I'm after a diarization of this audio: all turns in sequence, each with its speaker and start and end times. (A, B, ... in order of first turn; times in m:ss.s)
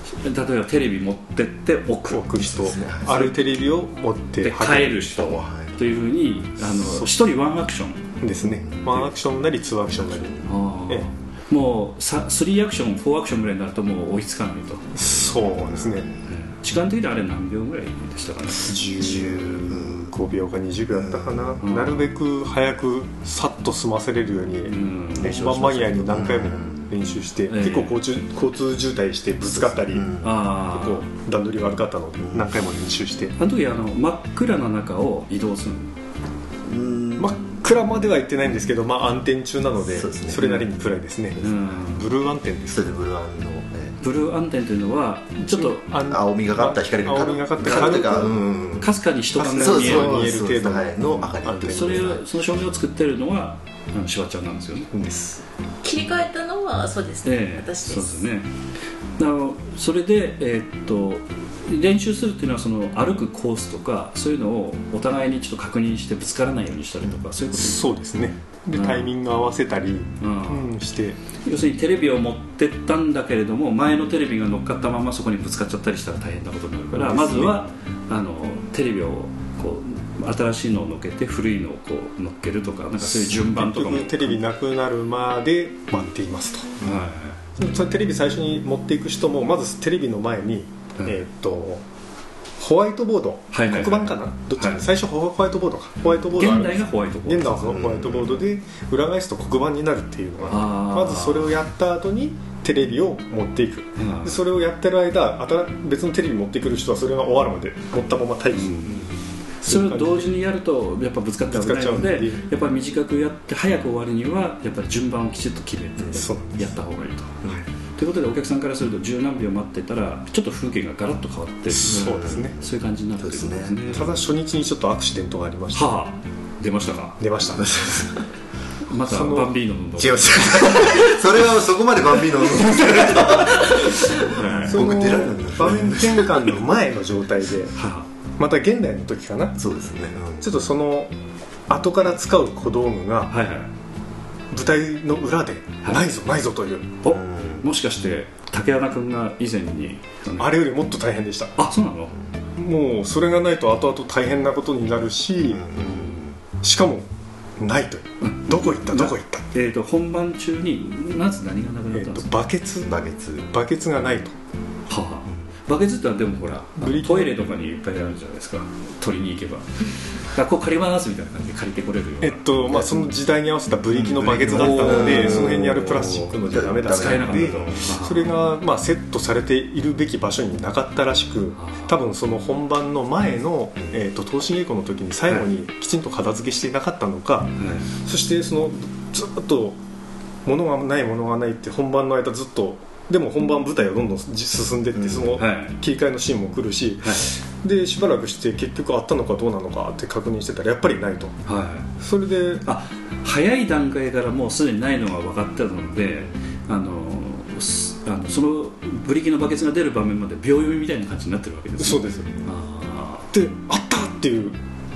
0:00.2-0:02.6 A
0:02.1-0:05.2 B
0:02.5-0:03.3 C
0:03.1-0:03.3 A
0:04.4-0:08.2 A
0:05.2-0:05.8 C
0:06.8-0:07.1 B
0:08.2-0:11.1 B
0:08.4-0:09.0 C
0:10.1-0:10.4 C
0:10.4-0:15.0 A
0:14.9-0:16.1 B
0:15.4-0:16.3 C
0:16.2-0:19.4 A
0:18.6-0:33.4 B
0:19.1-0:20.1 C
0:20.9-0:21.6 C
0:21.6-0:22.1 A
0:24.6-0:25.5 A
0:25.2-0:26.9 C
0:27.5-0:27.9 A
0:29.8-0:30.4 C
0:30.2-0:31.0 A
0:33.4-0:35.9 A
0:36.6-0:37.4 C
0:37.2-0:42.8 B
0:39.9-0:40.6 C
0:41.4-0:41.7 C
0:41.4-0:42.1 A
0:42.7-0:44.0 C
0:44.0-0:45.9 A
0:45.4-0:48.4 B
0:46.0-0:48.9 C
0:48.8-0:50.4 A
0:49.4-0:52.2 B
0:49.6-0:52.2 C
0:51.7-0:54.9 A
0:54.9-0:55.4 B
0:55.8-0:58.2 D
0:57.2-0:58.5 A
0:59.2-1:07.9 A
1:07.5-1:11.2 B
1:08.7-1:09.1 A
1:10.2-1:10.7 A
1:11.4-1:24.4 A
1:16.9-1:17.6 B
1:23.0-1:26.7 B
1:26.8-1:27.4 A
1:27.6-1:31.8 B
1:32.6-1:49.1 B
1:33.5-1:34.8 A
1:36.3-1:37.8 A
1:37.7-1:38.4 C
1:40.5-1:41.5 A
1:44.0-1:44.4 A
1:48.5-1:49.1 A
1:49.6-1:50.3 B
1:49.6-2:04.2 A
1:51.5-1:52.4 B
1:56.1-1:56.8 B
2:01.7-2:02.6 B
2:01.8-2:02.5 C
2:03.2-2:04.1 C
2:03.9-2:05.9 B
2:05.7-2:07.2 A
2:07.2-2:07.7 B
2:07.5-2:08.2 C
2:08.9-2:11.0 A
2:09.0-2:09.5 B
2:10.0-2:16.5 C
2:14.2-2:14.8 A
2:14.6-2:17.8 B
2:17.7-2:18.1 A
2:18.4-2:19.6 B
2:19.6-2:20.5 C
2:20.4-2:21.1 B
2:21.7-2:23.3 B
2:23.3-2:23.7 A
2:24.5-2:27.0 B
2:27.0-2:30.6 A
2:27.0-2:27.6 C
2:30.4-2:31.6 B
2:31.6-2:32.1 A
2:32.6-2:35.7 B
2:35.5-2:36.4 C
2:36.6-2:39.5 B
2:38.2-2:42.4 A
2:41.9-2:44.4 B
2:42.8-2:43.5 C
2:44.9-2:52.4 A
2:46.8-2:47.4 B
2:52.2-3:09.8 B
2:54.0-2:57.9 C
2:54.2-2:55.7 A
2:56.8-2:58.3 A
3:01.6-3:01.9 A
3:07.6-3:07.9 A
3:10.4-3:21.4 B
3:14.9-3:15.4 C
3:15.4-3:15.7 A
3:17.0-3:17.3 A
3:21.4-3:21.9 A
3:22.0-3:22.6 B
3:22.6-3:33.3 A
3:31.8-3:32.4 B
3:33.3-3:34.6 B